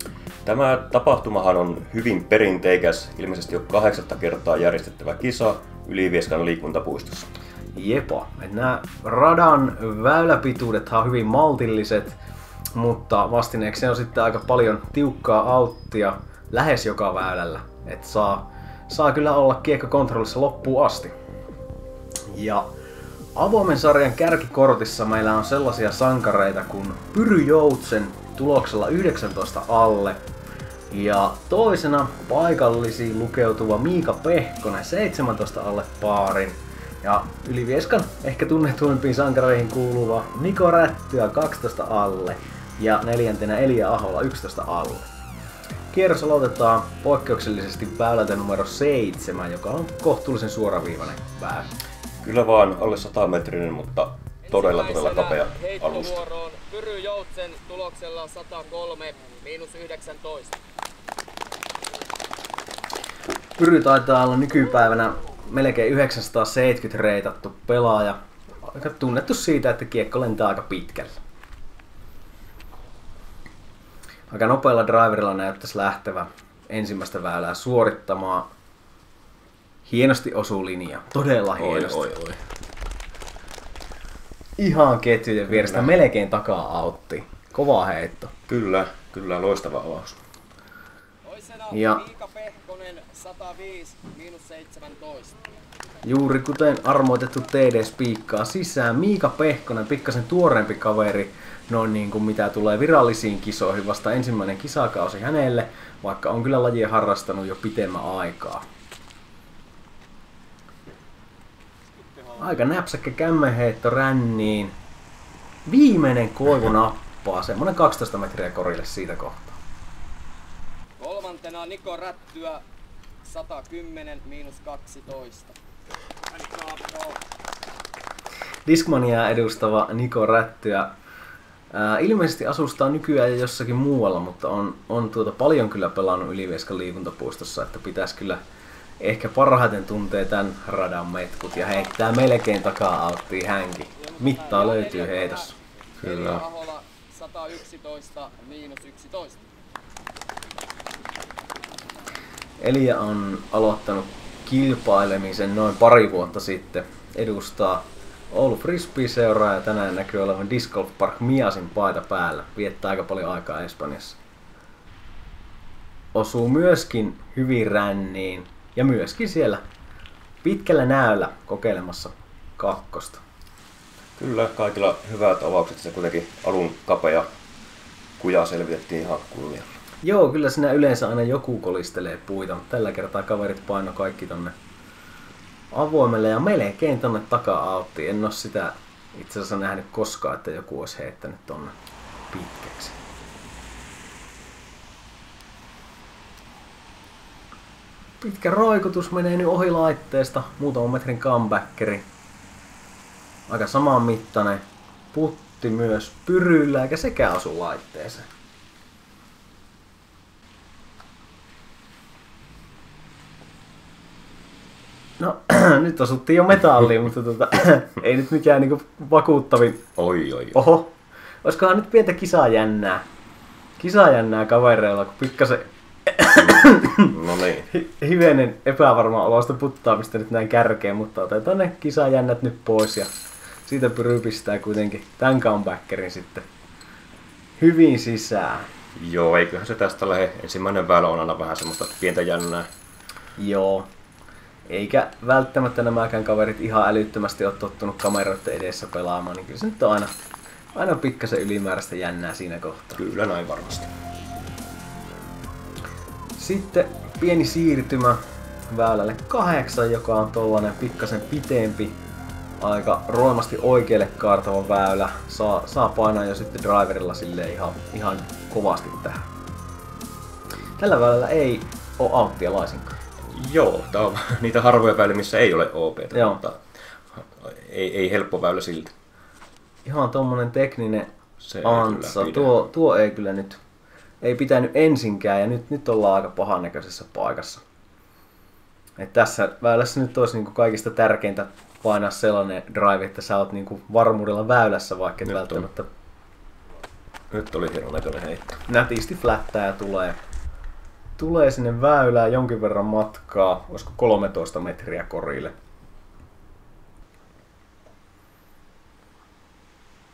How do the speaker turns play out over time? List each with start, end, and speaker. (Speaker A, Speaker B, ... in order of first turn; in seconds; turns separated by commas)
Speaker A: 0.4-7.3, Speaker B: 7.7-12.2, Speaker B: 12.7-21.1, Speaker B: 22.3-22.7, Speaker B: 23.4-30.2, Speaker B: 30.9-45.1, Speaker B: 45.9-51.7, Speaker A: 52.2-56.2, Speaker C: 54.4-60.6, Speaker B: 63.6-71.2, Speaker B: 74.3-78.5, Speaker B: 79.8-82.1, Speaker A: 81.6-82.4, Speaker B: 84.6-88.3, Speaker A: 85.5-85.9, Speaker A: 88.5-90.2, Speaker C: 91.2-95.4, Speaker B: 91.7-92.0, Speaker B: 96.0-108.6, Speaker B: 112.4-114.7, Speaker B: 115.7-119.6, Speaker C: 121.0-122.6, Speaker C: 123.2-125.5, Speaker C: 126.3-127.2, Speaker B: 128.7-130.9, Speaker B: 131.7-138.4, Speaker B: 139.0-145.5, Speaker C: 144.0-149.4, Speaker A: 146.0-146.4, Speaker B: 152.6-164.2, Speaker B: 166.1-169.6, Speaker B: 170.4-173.2, Speaker A: 174.2-177.3, Speaker A: 178.2-179.7, Speaker B: 180.0-184.5, Speaker B: 185.7-191.7, Speaker B: 192.3-193.0, Speaker B: 198.2-202.1, Speaker B: 203.5-208.3, Speaker B: 215.2-219.9, Speaker A: 219.9-220.6, Speaker B: 220.5-223.0, Speaker B: 223.8-227.1, Speaker A: 226.3-227.7, Speaker B: 227.7-233.1, Speaker B: 233.7-236.5, Speaker B: 237.6-238.7, Speaker A: 238.9-242.7, Speaker B: 243.4-243.9, Speaker B: 244.7-250.1, Speaker B: 250.7-253.0, Speaker A: 252.9-253.9, Speaker B: 256.4-261.9, Speaker B: 262.6-269.2, Speaker B: 270.8-272.9, Speaker A: 273.3-278.9, Speaker B: 276.1-276.4, Speaker B: 279.8-283.6, Speaker A: 281.4-282.6, Speaker B: 284.2-287.6, Speaker B: 289.0-295.9, Speaker A: 295.2-295.7, Speaker A: 297.3-298.6, Speaker B: 298.7-300.2, Speaker B: 301.2-305.5